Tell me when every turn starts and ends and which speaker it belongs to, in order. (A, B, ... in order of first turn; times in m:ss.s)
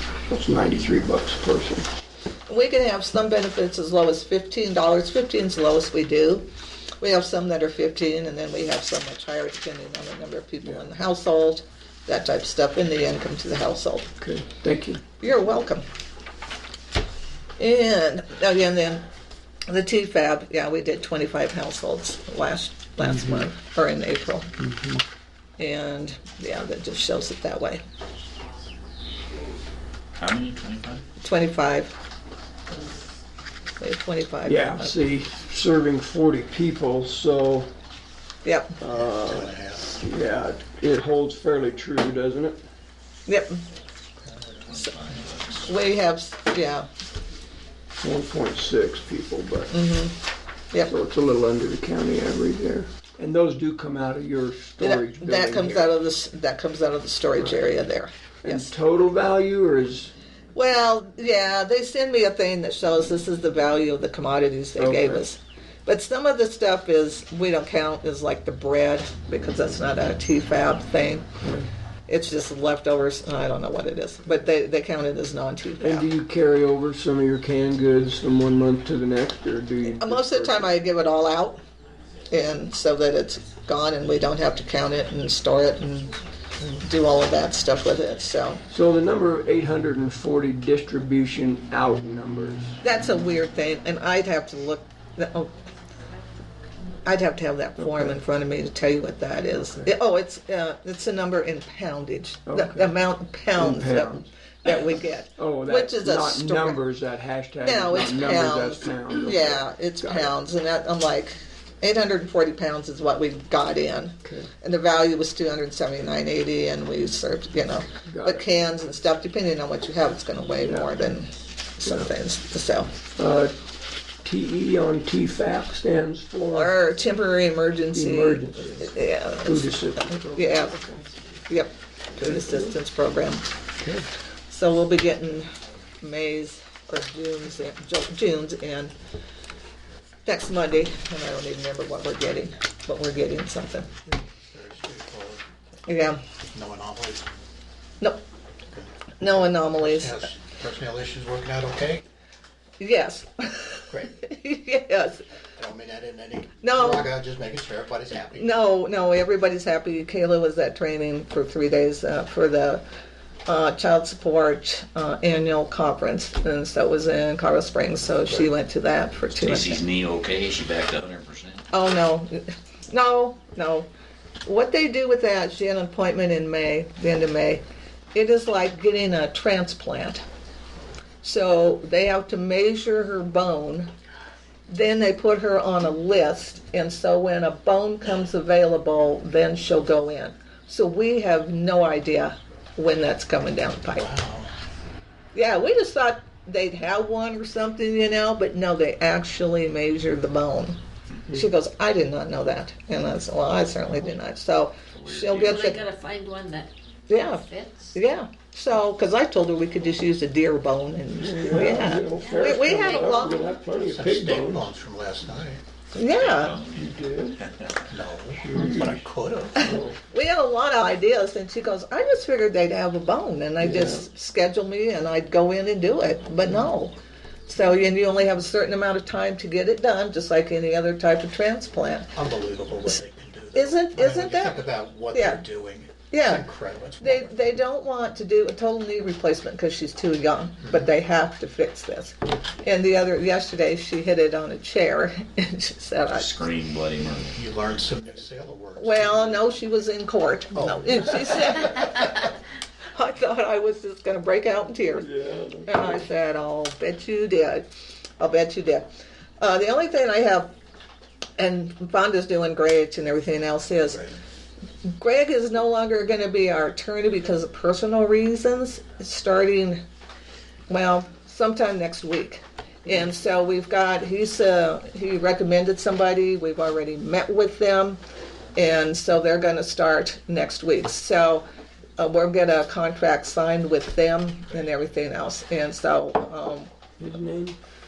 0:00.3-0:01.9 A
0:02.5-0:06.5 B
0:07.0-0:14.1 B
0:14.2-0:15.0 A
0:15.2-0:15.9 B
0:17.6-0:19.0 B
0:19.7-0:24.5 B
0:24.6-0:25.0 A
0:25.6-0:27.8 B
0:30.2-0:31.0 C
0:31.2-0:31.9 B
0:33.8-0:34.9 B
0:34.4-0:37.7 A
0:38.4-0:38.8 B
0:38.8-0:42.6 A
0:38.9-0:39.9 D
0:43.3-0:43.6 B
0:44.3-0:44.6 D
0:44.7-0:45.8 C
0:45.6-0:46.9 B
0:48.0-0:49.8 A
0:49.7-0:50.2 B
0:50.8-0:56.0 A
0:54.8-0:58.8 B
0:58.4-1:00.1 A
1:00.6-1:11.3 B
1:04.8-1:05.2 A
1:11.4-1:11.7 A
1:12.1-1:16.1 B
1:15.8-1:20.7 A
1:19.9-1:21.6 B
1:22.3-1:26.2 B
1:26.8-1:28.6 B
1:28.7-1:32.8 A
1:32.8-1:35.5 B
1:37.0-1:46.8 B
1:37.8-1:38.2 A
1:42.5-1:43.0 A
1:43.6-1:44.3 A
1:45.4-1:50.3 A
1:47.6-2:02.9 B
1:54.2-1:54.5 A
1:58.1-1:58.5 A
2:00.6-2:01.0 A
2:01.8-2:02.1 A
2:03.2-2:03.6 A
2:04.2-2:06.8 A
2:06.5-2:10.8 B
2:07.9-2:08.9 A
2:09.4-2:11.1 A
2:11.5-2:13.5 B
2:12.2-2:12.7 A
2:13.8-2:14.1 A
2:14.5-2:15.5 B
2:16.0-2:18.9 B
2:20.2-2:23.9 B
2:24.1-2:25.4 D
2:25.9-2:26.2 B
2:26.5-2:27.3 D
2:29.2-2:30.3 B
2:29.8-2:32.0 D
2:32.8-2:35.2 B
2:33.9-2:34.2 D
2:35.6-2:38.5 D
2:36.6-2:37.1 B
2:38.4-2:42.8 B
2:43.5-2:49.8 B
2:49.4-2:51.7 C
2:51.7-2:53.9 B
2:54.4-2:57.6 B
2:58.2-3:00.2 B
3:01.2-3:03.9 B
3:04.7-3:14.1 B
3:13.9-3:14.5 D
3:15.4-3:20.8 B
3:21.3-3:25.8 B
3:24.9-3:25.8 C
3:25.4-3:27.9 E
3:27.1-3:33.4 B
3:31.2-3:34.7 A
3:32.1-3:33.2 E
3:33.7-3:35.6 D
3:36.0-3:36.6 B
3:36.0-3:36.9 C
3:36.7-3:37.4 A
3:37.8-3:39.7 D
3:38.4-3:39.0 A
3:39.6-3:40.0 A
3:39.6-3:47.0 B
3:43.6-3:44.0 A
3:47.5-3:52.1 B
3:52.2-3:57.3 D
3:53.5-3:55.4 B
3:56.1-3:56.5 B
3:57.0-4:06.3 B
4:06.1-4:07.4 C
4:07.3-4:09.4 D
4:08.8-4:12.3 B
4:10.6-4:11.2 D
4:13.0-4:15.1 B
4:15.0-4:16.0 A
4:15.7-4:17.7 B
4:18.2-4:18.9 B
4:19.4-4:20.5 B
4:21.4-4:24.1 B
4:25.0-4:29.8 B
4:30.7-4:38.0 B
4:38.6-4:41.4 B
4:42.0-4:46.7 B
4:47.0-4:47.6 A